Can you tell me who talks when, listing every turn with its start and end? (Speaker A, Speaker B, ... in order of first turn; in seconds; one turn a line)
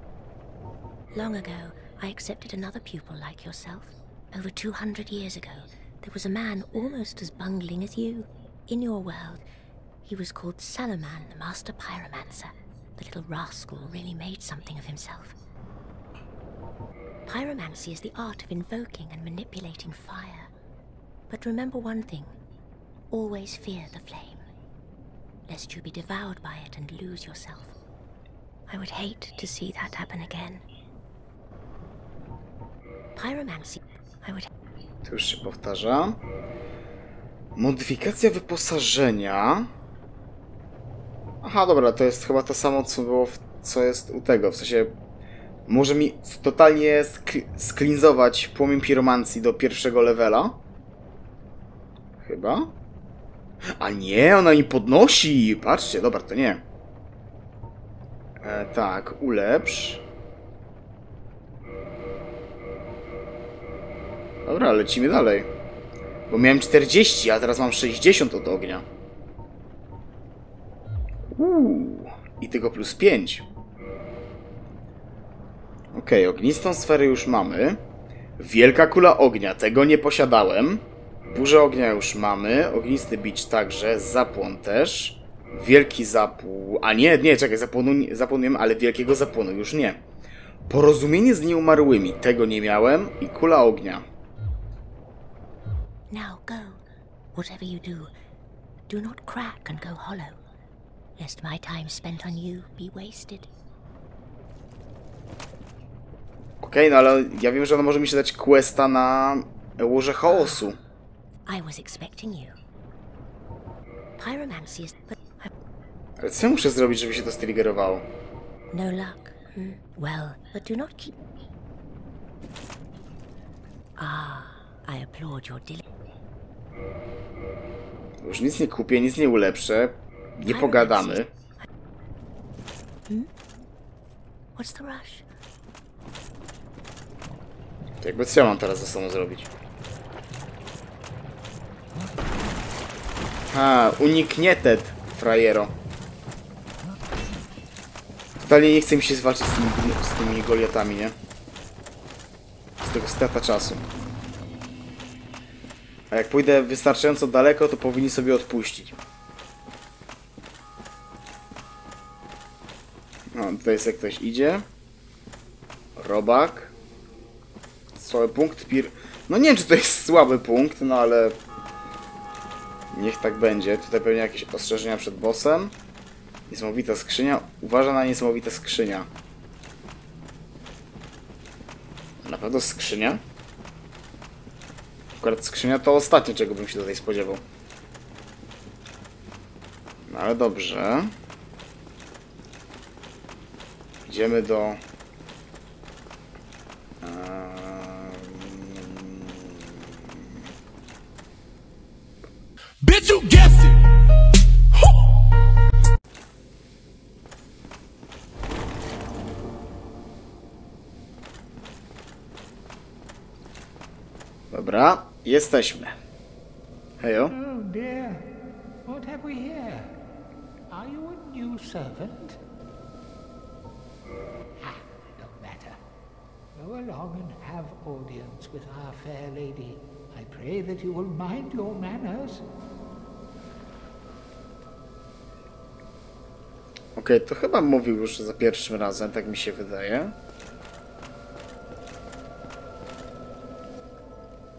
Speaker A: 1.1-9.4
Speaker A: 10.0-15.4
Speaker A: 17.2-20.5
Speaker A: 21.3-22.3
Speaker A: 23.1-24.4
Speaker A: 25.5-27.8
Speaker A: 28.7-30.6
Speaker A: 33.1-34.5
Speaker B: 35.0-36.2
Speaker B: 37.5-39.7
Speaker B: 41.4-44.9
Speaker B: 45.7-50.6
Speaker B: 52.2-52.7
Speaker B: 53.8-56.6
Speaker B: 58.4-60.0
Speaker B: 64.4-65.5
Speaker B: 66.3-68.8
Speaker B: 71.3-73.5
Speaker B: 75.9-77.8
Speaker B: 78.4-90.0
Speaker B: 90.7-94.0
Speaker A: 96.1-96.8
Speaker A: 97.3-98.1
Speaker A: 98.9-100.4
Speaker A: 101.2-103.5
Speaker B: 106.6-110.8
Speaker A: 111.5-112.5
Speaker A: 114.2-115.5
Speaker B: 116.2-118.1
Speaker A: 118.7-121.2
Speaker A: 124.0-125.8
Speaker B: 128.2-131.3
Speaker A: 130.4-131.2
Speaker A: 134.5-135.2
Speaker B: 138.0-139.5
Speaker B: 143.5-145.7
Speaker B: 148.4-151.1
Speaker B: 152.8-153.8
Speaker B: 156.1-159.0
Speaker B: 163.3-164.6
Speaker B: 166.0-166.7
Speaker B: 167.9-171.4
Speaker B: 172.9-175.7
Speaker B: 176.5-179.1
Speaker B: 182.2-183.2
Speaker B: 185.2-187.4
Speaker B: 190.1-191.1
Speaker B: 194.1-194.8
Speaker B: 197.0-199.8
Speaker C: 202.8-203.9
Speaker B: 214.5-215.9
Speaker B: 217.0-217.3
Speaker C: 217.3-219.9
Speaker C: 220.7-222.4
Speaker C: 224.6-225.8
Speaker C: 226.5-232.4
Speaker B: 236.9-240.2